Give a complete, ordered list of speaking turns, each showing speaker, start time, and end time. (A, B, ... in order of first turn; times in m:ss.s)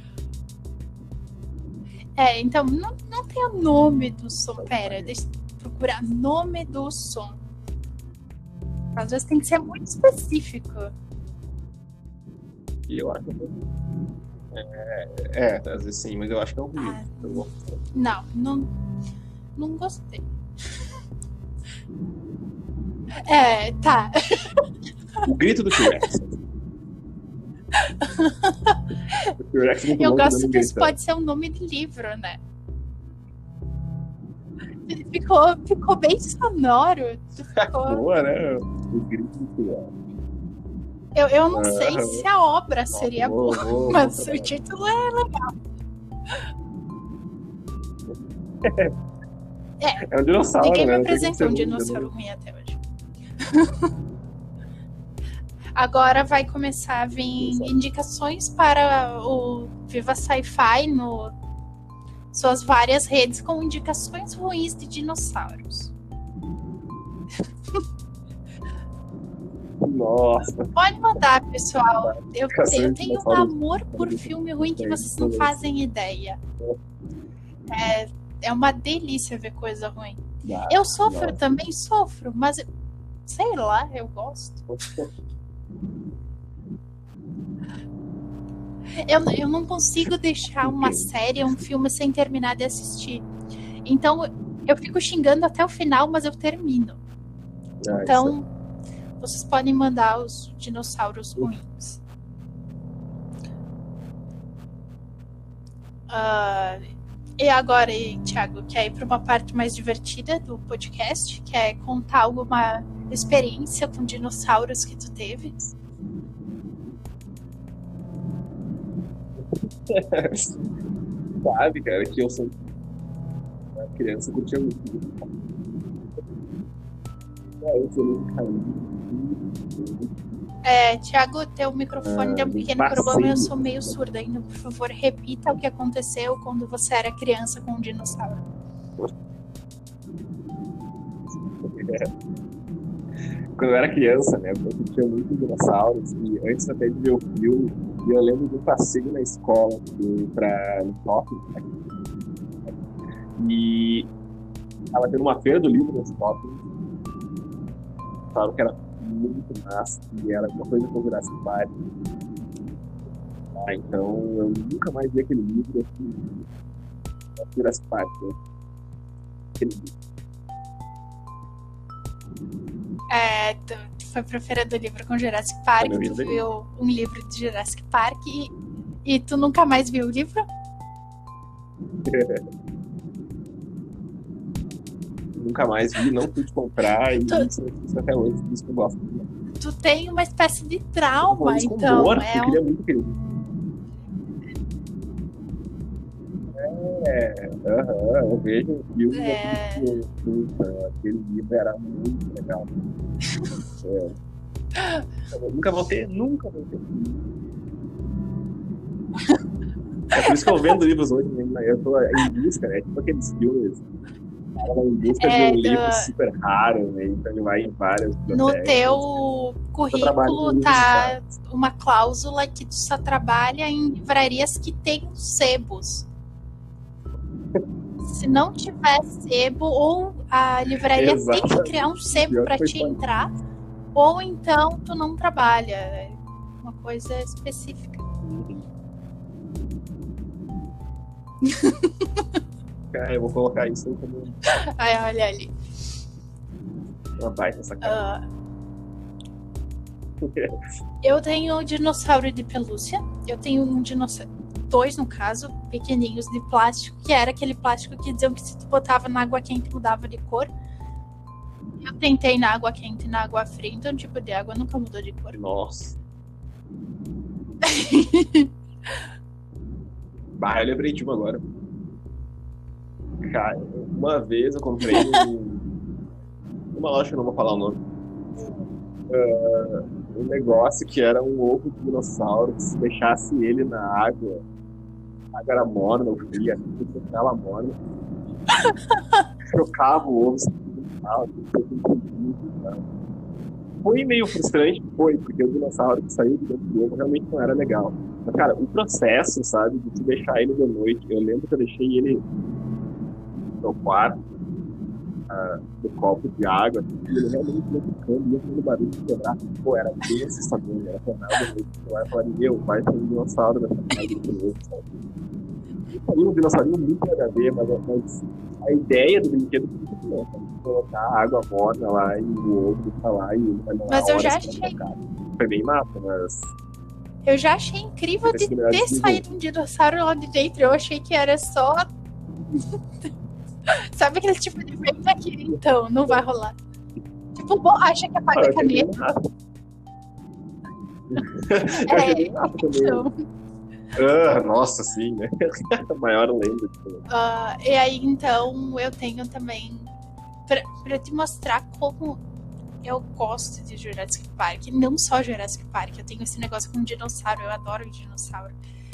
0:02.2-0:07.4 A
0:04.5-0:05.1 B
0:08.9-0:10.9 A
0:12.9-0:13.6 B
0:14.5-0:17.9 B
0:16.8-0:18.7 A
0:19.6-0:20.2 A
0:23.2-0:24.6 A
0:25.2-0:26.4 B
0:27.8-0:29.3 A
0:29.4-0:30.9 B
0:29.9-0:32.4 A
0:34.9-0:38.0 A
0:37.5-0:39.9 B
0:41.2-0:45.5 A
0:41.5-0:42.3 B
0:42.9-0:44.5 B
0:48.1-0:48.9 B
0:50.1-0:52.1 B
0:50.6-0:52.8 A
0:53.4-0:53.9 A
0:55.7-1:01.3 A
0:57.3-0:57.7 B
1:02.3-1:05.9 A
1:09.8-1:10.7 B
1:10.4-1:16.4 A
1:12.0-1:15.6 B
1:17.7-1:22.6 A
1:20.4-1:21.4 B
1:23.2-1:24.6 A
1:24.7-1:25.1 B
1:29.0-1:33.3 A
1:30.6-1:31.1 B
1:33.8-1:37.0 A
1:37.8-1:38.3 B
1:38.0-1:38.5 A
1:39.2-1:42.0 A
1:46.1-1:46.8 A
1:47.4-1:55.6 A
1:59.5-2:00.7 B
2:01.4-2:02.6 B
2:03.8-2:05.4 B
2:07.6-2:10.2 B
2:10.6-2:18.4 A
2:11.9-2:14.0 B
2:21.6-2:22.1 B
2:23.6-2:31.7 B
2:33.4-2:34.1 B
2:34.9-2:36.6 B
2:38.3-2:41.7 B
2:43.5-2:46.4 B
2:47.4-2:48.4 B
2:49.6-2:49.9 B
2:53.1-2:58.5 A
2:55.8-2:56.4 B
2:59.0-3:00.4 A
3:02.0-3:02.4 B
3:05.3-3:09.3 B
3:07.2-3:07.5 A
3:09.6-3:12.6 A
3:11.2-3:13.2 B
3:16.5-3:22.7 B
3:19.1-3:19.9 A
3:23.8-3:24.2 B
3:25.3-3:27.2 B
3:30.1-3:33.9 B
3:34.6-3:39.2 B
3:35.2-3:36.1 A
3:38.3-3:46.1 A
3:39.9-3:41.2 B
3:48.0-3:53.3 A
3:50.9-3:53.0 B
3:53.9-3:58.0 A
3:58.2-3:58.6 B
4:01.4-4:02.2 A
4:02.9-4:04.6 B
4:04.5-4:05.5 A
4:07.2-4:08.0 B
4:07.8-4:08.2 A
4:10.2-4:10.6 B
4:11.0-4:20.5 A
4:21.8-4:25.4 A
4:25.3-4:26.0 B
4:27.6-4:28.5 A
4:30.4-4:31.4 B
4:33.2-4:35.7 B
4:34.9-4:35.2 A
4:36.7-4:37.8 B
4:39.1-4:44.4 B
4:45.3-4:47.8 B
4:48.7-4:49.2 A
4:49.5-4:52.8 B
4:53.8-5:02.2 B
5:03.6-5:04.2 B
5:05.3-5:15.0 B
5:15.9-5:26.5 B
5:23.9-5:24.8 A
5:27.2-5:31.9 A
5:28.3-5:29.2 B
5:33.7-5:36.6 A
5:37.3-5:38.9 A
5:38.3-5:39.2 B
5:41.1-5:43.0 B
5:41.9-5:43.1 A
5:44.0-5:47.0 B
5:47.1-5:49.9 A
5:50.5-5:52.2 A
5:52.8-5:58.6 A